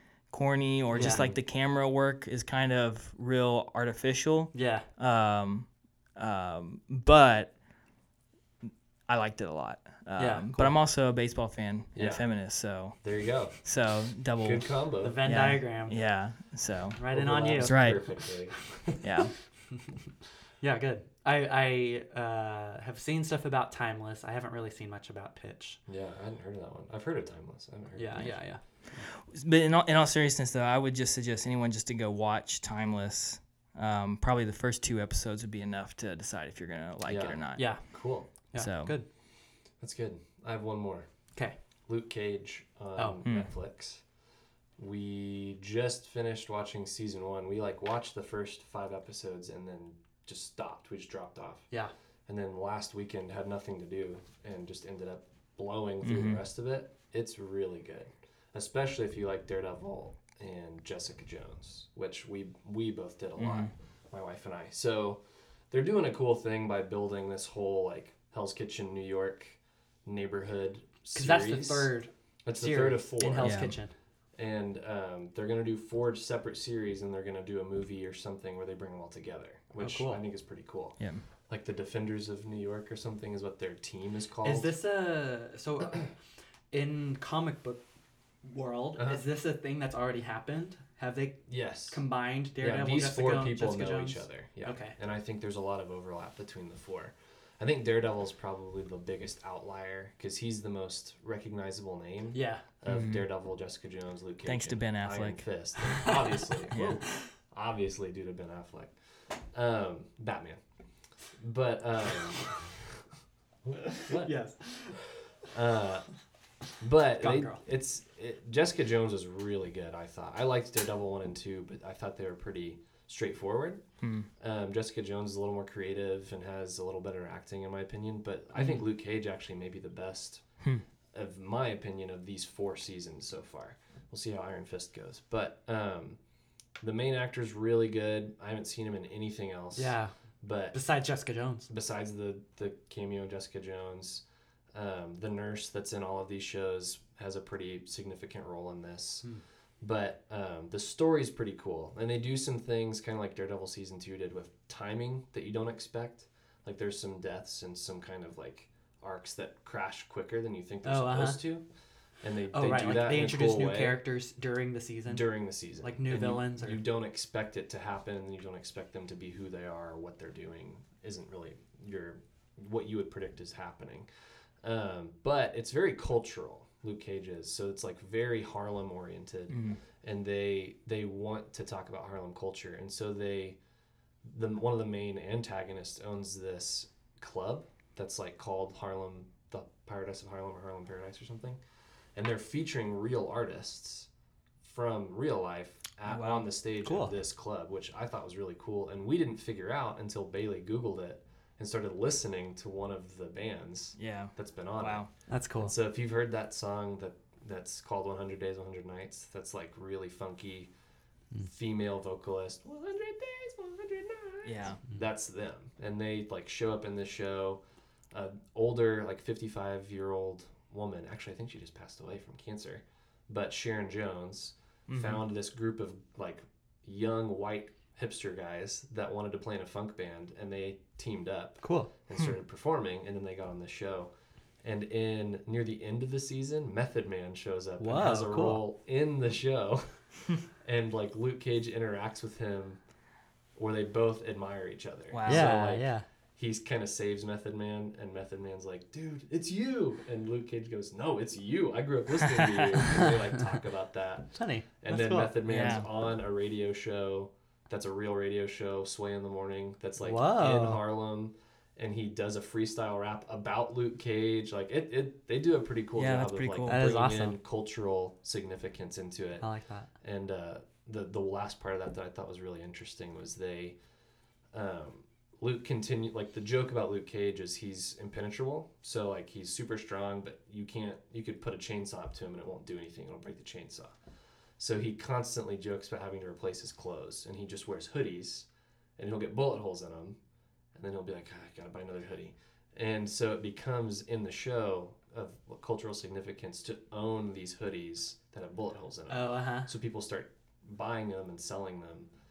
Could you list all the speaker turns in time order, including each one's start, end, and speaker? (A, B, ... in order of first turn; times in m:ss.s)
0:00.3-0:07.5 A
0:00.9-0:01.3 B
0:01.0-0:01.4 C
0:04.5-0:04.9 B
0:09.1-0:13.0 A
0:10.2-0:10.8 B
0:11.9-0:12.3 C
0:13.0-0:13.6 C
0:13.5-0:14.7 A
0:14.4-0:15.2 C
0:15.0-0:15.9 B
0:15.2-0:17.0 A
0:17.0-0:18.2 B
0:17.1-0:19.0 C
0:17.6-0:18.0 A
0:19.0-0:19.3 A
0:20.6-0:25.8 B
0:25.9-0:28.4 C
0:28.0-0:29.1 B
0:29.1-0:37.8 A
0:37.1-0:38.3 C
0:37.6-0:39.1 B
0:38.6-0:39.0 A
0:39.8-0:41.1 C
0:41.9-0:44.0 C
0:43.0-0:43.2 B
0:43.2-0:43.5 A
0:44.8-0:51.7 C
0:52.3-1:11.9 C
0:56.0-0:56.4 A
1:03.4-1:03.7 A
1:11.1-1:13.9 B
1:12.4-1:13.7 C
1:13.4-1:13.8 A
1:14.4-1:21.0 C
1:19.8-1:20.2 B
1:21.5-1:24.7 C
1:24.4-1:26.1 B
1:26.7-1:27.8 B
1:28.4-1:35.0 B
1:31.5-1:32.0 C
1:32.6-1:50.6 C
1:42.3-1:42.6 B
1:42.9-1:43.2 A
1:44.4-1:45.4 A
1:45.8-1:46.5 B
1:46.7-1:47.0 A
1:51.3-1:53.0 C
1:53.6-1:54.3 C
1:53.9-1:55.0 B
1:55.4-1:56.1 C
1:56.8-2:03.8 C
1:57.2-1:57.6 B
2:04.0-2:04.3 A
2:04.4-2:10.4 C
2:08.6-2:08.8 B
2:11.1-2:16.2 C
2:16.8-2:20.8 C
2:19.7-2:20.1 B
2:20.7-2:21.7 B
2:21.7-2:29.3 C
2:29.8-2:41.6 C
2:40.8-2:41.4 B
2:42.2-2:44.0 C
2:42.5-2:45.3 B
2:45.1-2:54.1 C
2:45.8-2:46.8 B
2:54.6-3:03.6 C
2:59.5-2:59.8 A
3:04.2-3:11.6 C
3:12.1-3:14.1 C
3:14.6-3:30.7 C
3:16.0-3:16.5 A
3:16.8-3:17.1 B
3:24.0-3:25.1 A
3:25.3-3:25.7 B
3:31.4-3:54.1 C
3:34.4-3:34.8 A
3:44.9-3:45.2 A
3:51.6-3:51.9 B
3:54.6-4:02.8 C
3:57.8-3:58.6 B
4:03.6-4:29.5 C
4:05.1-4:05.5 A
4:05.2-4:06.0 B
4:12.4-4:12.7 A
4:14.3-4:15.3 B
4:15.4-4:15.9 A
4:20.0-4:20.8 B
4:26.0-4:26.8 A
4:26.7-4:27.4 B
4:29.4-4:29.9 B
4:30.0-4:33.8 C
4:34.5-4:43.9 C
4:44.6-4:50.2 C
4:50.7-5:02.1 C
4:59.1-4:59.7 B